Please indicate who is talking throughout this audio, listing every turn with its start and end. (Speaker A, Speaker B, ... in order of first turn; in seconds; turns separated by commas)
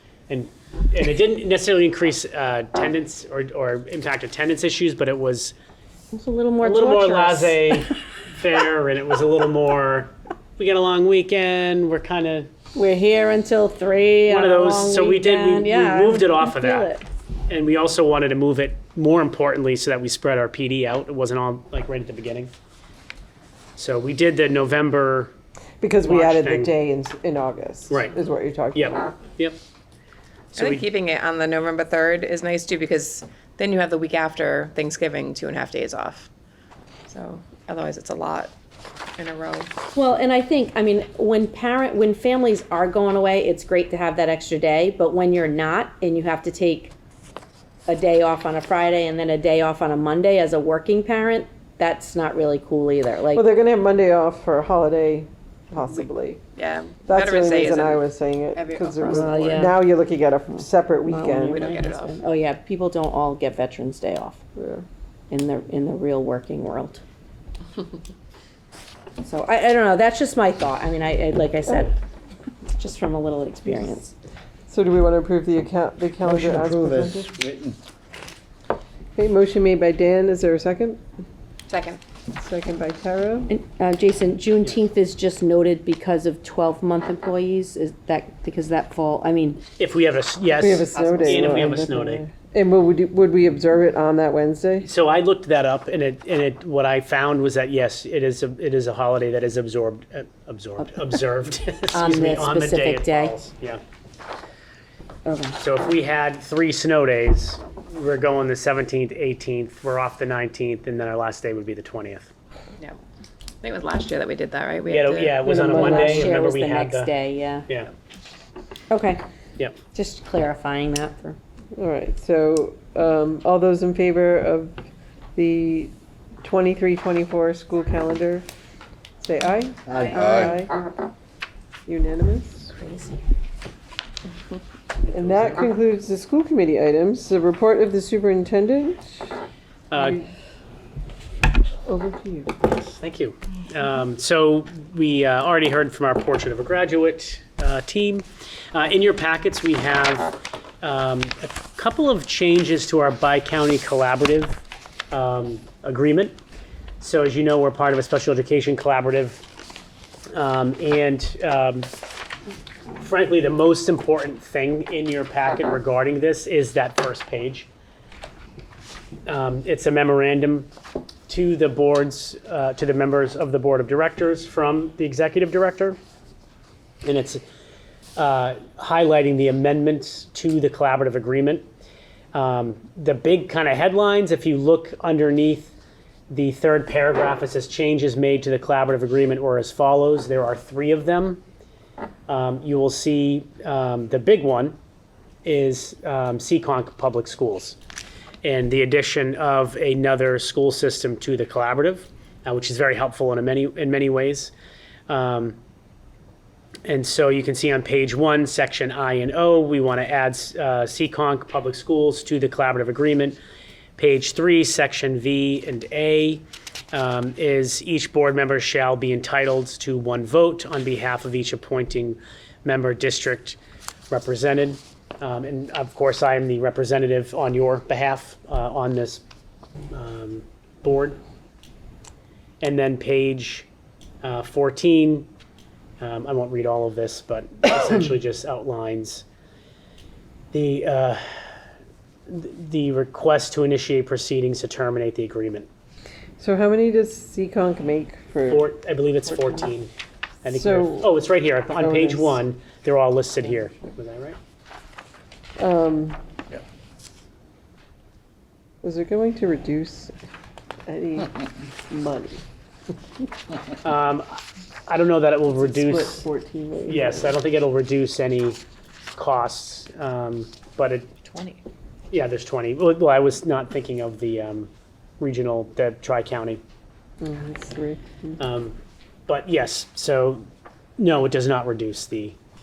Speaker A: 0.3-5.5, Speaker B: 6.1-7.7, Speaker A: 6.6-12.5, Speaker B: 12.8-17.1, Speaker A: 14.3-16.9, Speaker A: 17.5-22.5, Speaker A: 23.8-25.3, Speaker C: 25.8-29.1, Speaker A: 26.0-26.7, Speaker A: 27.9-28.1, Speaker A: 28.8-29.6, Speaker A: 30.6-30.9, Speaker D: 30.6-36.3, Speaker D: 37.1-38.5, Speaker D: 39.2-39.7, Speaker B: 39.9-47.0, Speaker B: 47.9-53.5, Speaker C: 53.3-56.4, Speaker D: 56.6-58.0, Speaker C: 57.1-61.7, Speaker D: 58.5-59.7, Speaker B: 59.1-59.8, Speaker B: 61.1-64.4, Speaker D: 61.4-62.2, Speaker C: 64.6-64.8, Speaker B: 65.3-67.0, Speaker B: 69.2-72.0, Speaker B: 72.8-74.1, Speaker C: 74.7-77.3, Speaker E: 76.3-77.8, Speaker C: 79.2-81.0, Speaker D: 81.7-82.0, Speaker C: 82.3-83.5, Speaker B: 83.5-89.6, Speaker A: 89.8-92.2, Speaker C: 90.6-94.9, Speaker D: 91.0-91.5, Speaker A: 94.8-103.8, Speaker B: 101.9-103.4, Speaker B: 105.3-105.6, Speaker A: 105.6-112.3, Speaker D: 113.6-115.5, Speaker A: 114.9-117.2, Speaker C: 115.4-116.3, Speaker B: 115.7-117.7, Speaker B: 118.9-119.2, Speaker B: 119.9-121.4, Speaker C: 121.8-124.8, Speaker C: 125.3-128.5, Speaker C: 129.2-130.7, Speaker E: 130.0-130.5, Speaker B: 130.1-130.5, Speaker C: 131.9-132.7, Speaker B: 132.8-133.2, Speaker A: 135.1-135.5, Speaker C: 135.1-139.3, Speaker A: 139.9-140.2, Speaker C: 139.9-140.3, Speaker C: 141.9-142.5, Speaker A: 142.6-156.4, Speaker A: 157.0-159.4, Speaker A: 160.3-161.9, Speaker A: 163.0-167.7, Speaker A: 169.3-170.7, Speaker A: 171.3-176.0, Speaker A: 177.0-177.4, Speaker A: 178.2-181.7, Speaker A: 182.3-185.8, Speaker A: 186.3-191.4, Speaker A: 192.3-194.8, Speaker A: 195.4-197.8, Speaker A: 198.4-204.5, Speaker A: 205.1-205.6, Speaker A: 206.8-213.4, Speaker A: 214.0-223.6, Speaker A: 224.1-229.2, Speaker A: 229.9-231.2, Speaker A: 232.6-233.7, Speaker A: 234.2-235.3, Speaker A: 236.0-239.2, Speaker A: 240.5-241.2, Speaker A: 242.3-245.7, Speaker C: 246.4-248.7, Speaker A: 248.5-249.9, Speaker A: 250.4-254.4, Speaker C: 250.5-251.1, Speaker C: 251.8-252.4, Speaker C: 255.6-256.2, Speaker C: 258.8-260.1, Speaker C: 260.9-262.4, Speaker A: 263.8-266.3, Speaker C: 265.5-267.3, Speaker A: 266.9-268.6, Speaker A: 269.1-271.1, Speaker A: 272.1-276.6, Speaker C: 277.2-278.4, Speaker A: 278.4-278.8, Speaker A: 279.3-280.5, Speaker A: 281.0-282.4